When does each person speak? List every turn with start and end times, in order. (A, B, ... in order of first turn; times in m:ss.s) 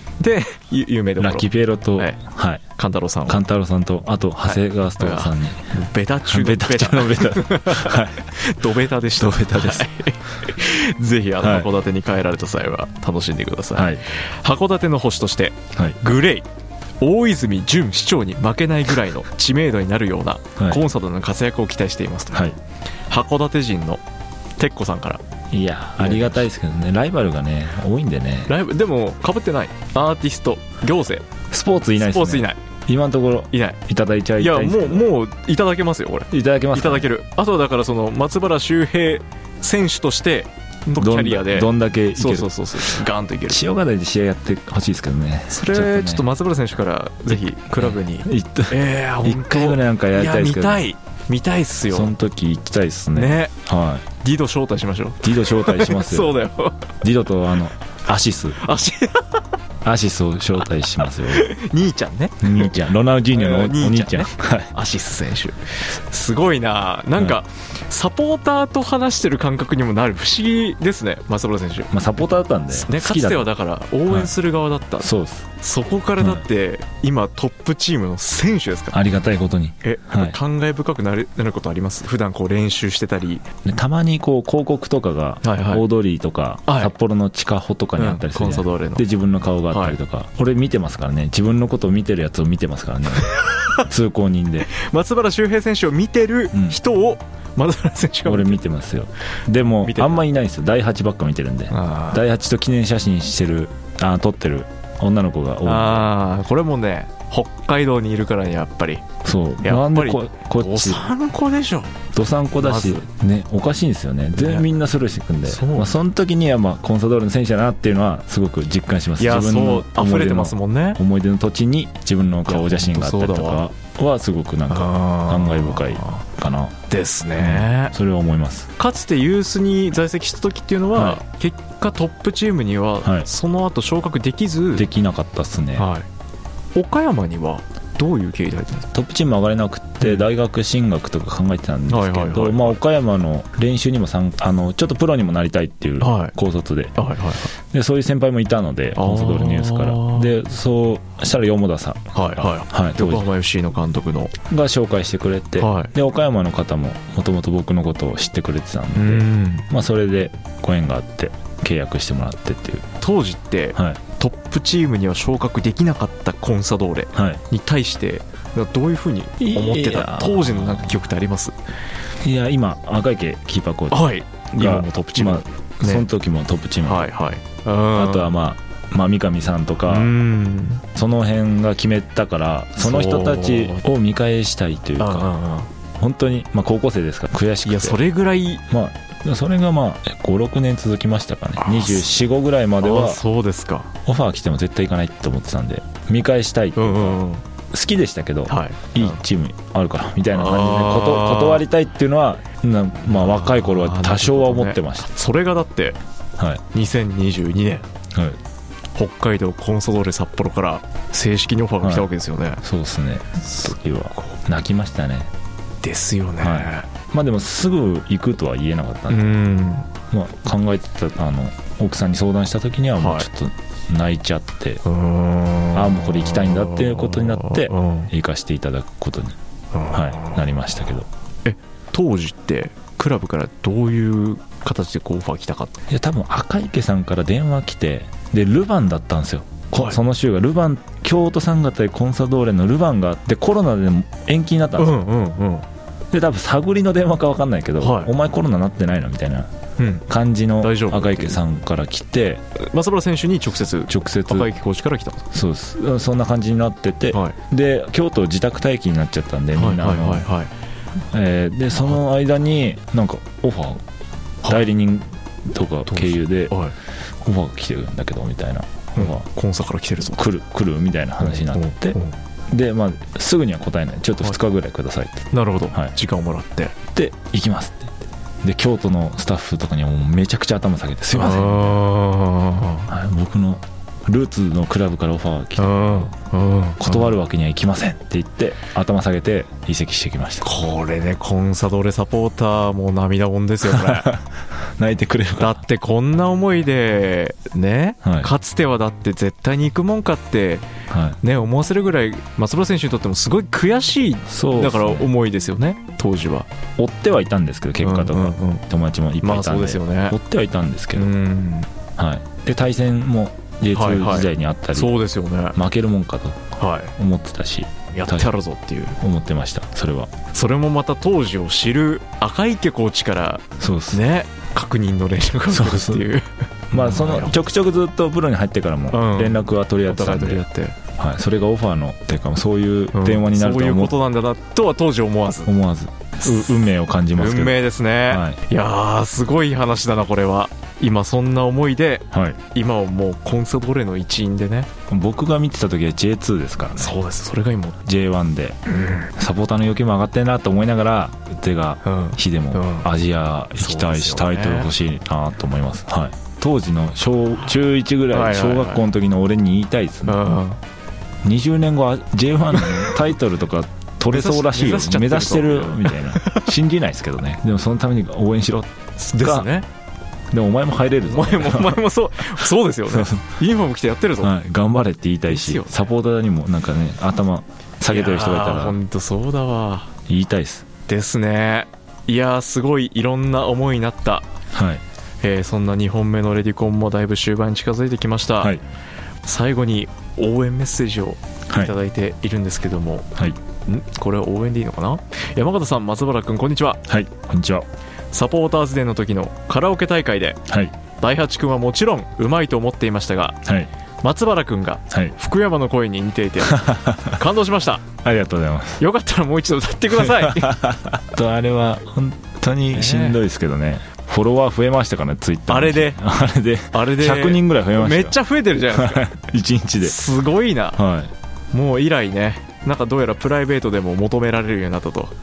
0:00.2-0:02.2 A
0:01.2-0:02.6 B
0:02.8-0:03.4 A
0:03.3-0:05.7 B
0:04.4-0:16.5 A
0:06.3-0:08.3 B
0:09.2-0:09.9 B
0:11.4-0:11.7 B
0:13.8-0:14.0 B
0:15.7-0:16.0 B
0:17.0-0:22.5 A
0:20.6-0:20.8 B
0:23.1-0:24.0 A
0:24.6-0:25.2 A
0:25.5-0:28.6 B
0:26.0-0:26.4 A
0:28.5-0:31.2 A
0:31.5-0:35.1 B
0:32.0-0:32.6 A
0:33.5-0:33.8 A
0:34.4-0:43.6 A
0:36.3-0:37.1 B
0:41.0-0:46.3 B
0:45.5-0:52.1 A
0:47.8-0:50.8 B
0:51.9-0:54.0 B
0:53.1-0:53.6 A
0:54.2-0:56.8 A
0:55.2-0:56.4 B
0:57.0-0:58.6 B
0:58.6-0:59.4 A
0:59.8-1:01.5 B
1:01.0-1:11.9 A
1:02.4-1:04.7 B
1:11.9-1:13.5 B
1:12.7-1:19.0 A
1:15.0-1:15.5 B
1:18.9-1:20.4 B
1:19.8-1:23.4 A
1:23.6-1:34.7 B
1:25.4-1:25.9 A
1:26.7-1:26.9 A
1:28.0-1:29.0 A
1:29.7-1:30.0 A
1:33.2-1:33.9 A
1:34.7-1:38.6 A
1:36.5-1:36.8 B
1:38.3-1:46.1 B
1:39.8-1:40.2 A
1:41.7-1:42.2 A
1:45.6-1:49.0 A
1:49.2-1:51.0 B
1:49.6-1:52.0 A
1:52.1-2:06.8 B
1:52.6-1:53.1 A
1:54.4-1:54.7 A
1:55.5-1:56.0 A
1:59.2-2:01.0 A
2:02.5-2:03.6 A
2:04.7-2:06.2 A
2:06.9-2:07.9 A
2:07.4-2:08.7 B
2:08.8-2:14.9 A
2:11.0-2:11.2 B
2:14.8-2:15.9 B
2:15.8-2:16.1 A
2:16.8-2:18.9 A
2:18.9-2:27.0 B
2:21.9-2:22.8 A
2:26.0-2:26.3 A
2:27.0-2:27.5 A
2:27.7-2:33.3 B
2:29.0-2:30.3 A
2:32.1-2:34.3 A
2:34.5-2:42.9 B
2:35.6-2:35.9 A
2:39.0-2:39.7 A
2:43.0-2:51.6 A
2:47.2-2:47.4 B
2:49.4-2:51.0 B
2:52.2-2:57.1 B
2:53.9-2:56.1 A
2:56.8-2:58.3 A
2:57.9-3:00.1 B
2:59.9-3:00.8 A
3:01.0-3:05.3 B
3:02.8-3:03.9 A
3:05.0-3:05.7 A
3:06.0-3:08.0 B
3:07.6-3:08.6 A
3:08.7-3:13.2 B
3:11.6-3:12.0 A
3:12.8-3:13.9 A
3:14.1-3:25.1 B
3:16.8-3:17.4 A
3:18.5-3:19.2 A
3:20.3-3:21.6 A
3:23.1-3:26.0 A
3:26.7-3:27.9 A
3:28.1-3:28.4 B
3:29.0-3:32.6 A
3:31.8-3:32.1 B
3:32.6-3:35.3 B
3:33.4-3:34.3 A
3:35.8-3:36.9 A
3:36.4-3:39.3 B
3:39.1-3:39.9 A
3:40.1-3:44.8 B
3:43.0-3:43.3 A
3:44.9-3:48.1 A
3:45.7-3:49.4 B
3:49.7-3:50.4 A
3:49.9-3:51.1 B
3:51.4-3:55.7 A
3:55.9-4:05.0 B
3:59.7-4:00.0 A
4:04.8-4:05.7 A
4:06.1-4:09.5 B
4:07.8-4:08.1 A
4:09.8-4:10.1 A
4:10.1-4:12.4 B
4:10.6-4:11.4 A
4:12.6-4:15.2 A
4:13.9-4:14.5 B
4:15.3-4:20.3 B
4:17.1-4:17.4 A
4:19.6-4:20.5 A
4:21.1-4:23.8 B
4:24.4-4:26.6 B
4:25.9-4:26.8 A
4:27.2-4:29.3 B
4:29.0-4:30.2 A
4:30.2-4:32.0 B
4:31.2-4:32.2 A
4:32.5-4:35.9 B
4:35.3-4:36.8 A
4:36.9-4:37.9 B
4:38.4-4:41.9 B
4:41.1-4:42.9 A
4:42.9-4:46.1 B
4:45.6-4:47.2 A
4:46.8-4:50.5 B
4:50.4-4:54.1 A
4:53.6-4:54.3 B
4:54.8-4:55.6 B
4:55.4-5:00.7 A
4:58.0-4:58.3 B
5:00.9-5:01.2 B
5:01.2-5:06.5 A
5:04.3-5:05.1 B
5:06.8-5:11.1 B
5:07.8-5:08.6 A
5:09.2-5:10.2 A
5:11.0-5:11.7 A
5:12.0-5:15.0 B
5:13.7-5:15.6 A
5:15.5-5:16.4 B
5:16.6-5:16.9 A
5:17.0-5:18.3 B
5:17.9-5:19.0 A
5:19.0-5:20.1 B
5:20.3-5:27.4 A
5:23.6-5:24.0 B
5:25.5-5:26.1 B
5:26.7-5:30.4 B
5:28.9-5:30.8 A
5:31.0-5:34.0 B
5:32.9-5:35.5 A
5:35.4-5:38.4 B
5:36.2-5:36.6 A
5:37.2-5:44.7 A
5:42.1-5:42.4 B
5:44.9-5:47.0 B
5:46.8-5:47.8 A
5:47.8-5:48.6 B
5:48.7-5:49.1 A
5:49.2-6:00.2 B
5:51.8-5:52.9 A
5:53.6-5:54.7 A
5:58.1-5:58.8 A
6:00.1-6:00.6 A
6:01.2-6:09.5 B
6:02.5-6:03.0 A
6:04.1-6:06.5 A
6:09.0-6:09.7 A
6:10.3-6:11.8 B
6:11.1-6:14.3 A
6:12.9-6:13.2 B
6:14.2-6:18.8 B
6:15.3-6:15.7 A
6:17.9-6:19.9 A
6:20.1-6:20.7 B
6:20.9-6:24.3 A
6:24.5-6:24.8 B
6:25.2-6:28.6 A
6:29.2-6:33.1 A
6:33.7-6:36.8 A
6:36.9-6:37.7 B
6:38.1-6:40.4 A
6:40.5-6:40.7 B
6:41.0-6:43.4 A
6:43.4-6:43.7 B
6:44.0-6:47.8 A
6:46.4-6:47.2 B
6:48.0-6:48.8 B
6:48.8-6:50.6 A
6:50.0-6:58.2 B
6:52.7-6:53.2 A
6:55.5-6:56.0 A
6:56.7-6:59.1 A
6:58.7-7:00.0 B
6:59.8-7:00.8 A
7:00.8-7:01.1 B
7:01.5-7:05.1 A